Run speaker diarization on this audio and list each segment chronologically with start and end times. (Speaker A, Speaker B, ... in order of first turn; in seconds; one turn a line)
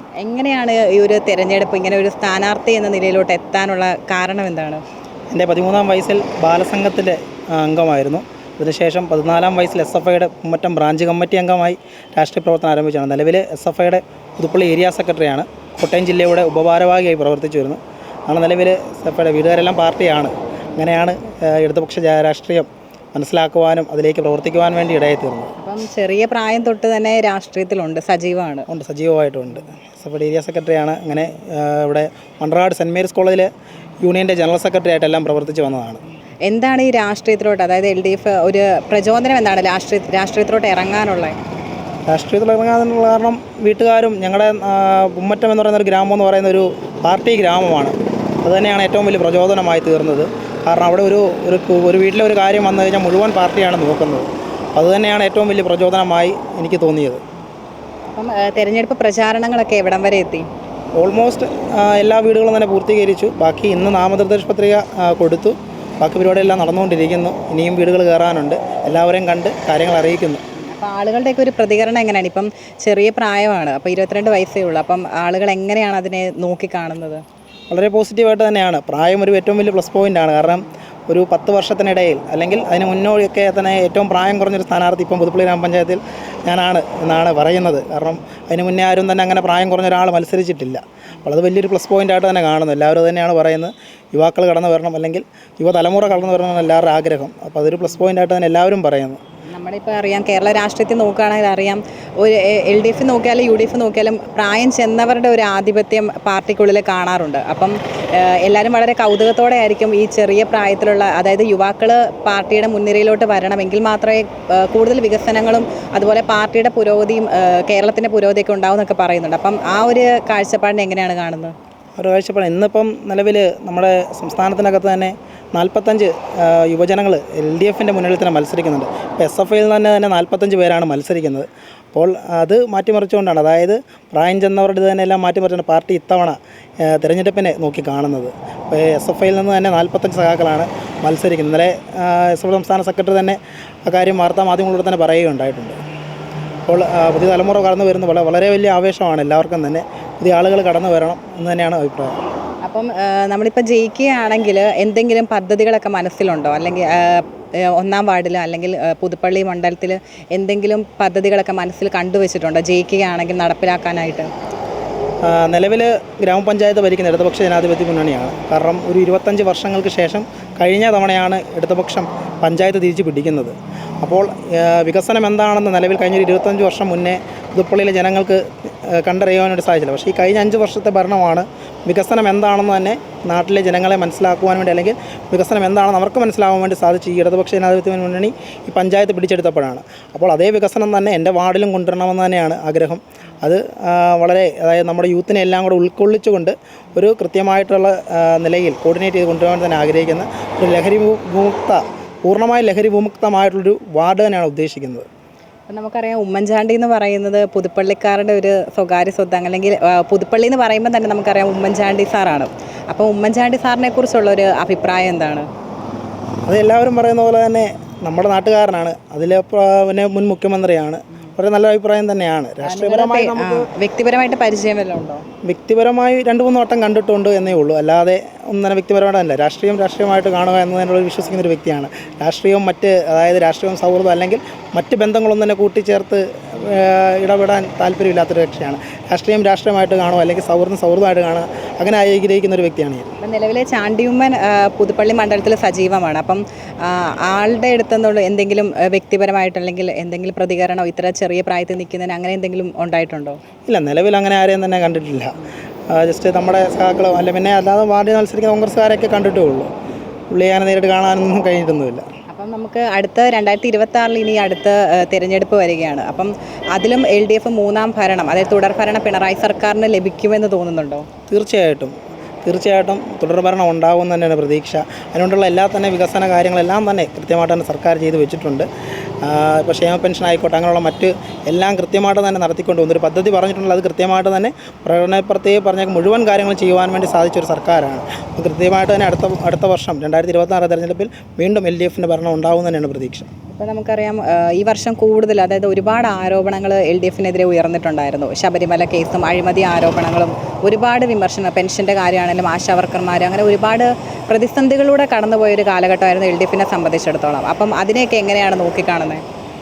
Speaker A: 0.2-4.8
Speaker B: 5.3-25.5
Speaker A: 25.6-28.6
Speaker B: 28.7-36.0
Speaker A: 36.5-41.4
Speaker B: 42.1-57.2
Speaker A: 58.1-60.5
Speaker B: 61.0-70.4
Speaker A: 70.6-77.2
Speaker B: 77.7-99.2
Speaker A: 99.5-121.5
Speaker B: 122.0-145.8
Speaker B: 146.7-152.2
Speaker A: 152.6-164.3
Speaker B: 165.2-205.1
Speaker A: 205.7-215.5
Speaker B: 216.5-223.7
Speaker A: 222.6-225.2
Speaker B: 225.4-243.1
Speaker A: 243.2-253.4
Speaker B: 253.7-255.4
Speaker B: 255.9-259.7
Speaker B: 260.3-262.0
Speaker A: 262.3-271.1
Speaker B: 271.3-278.7
Speaker B: 279.2-293.3
Speaker A: 293.5-309.2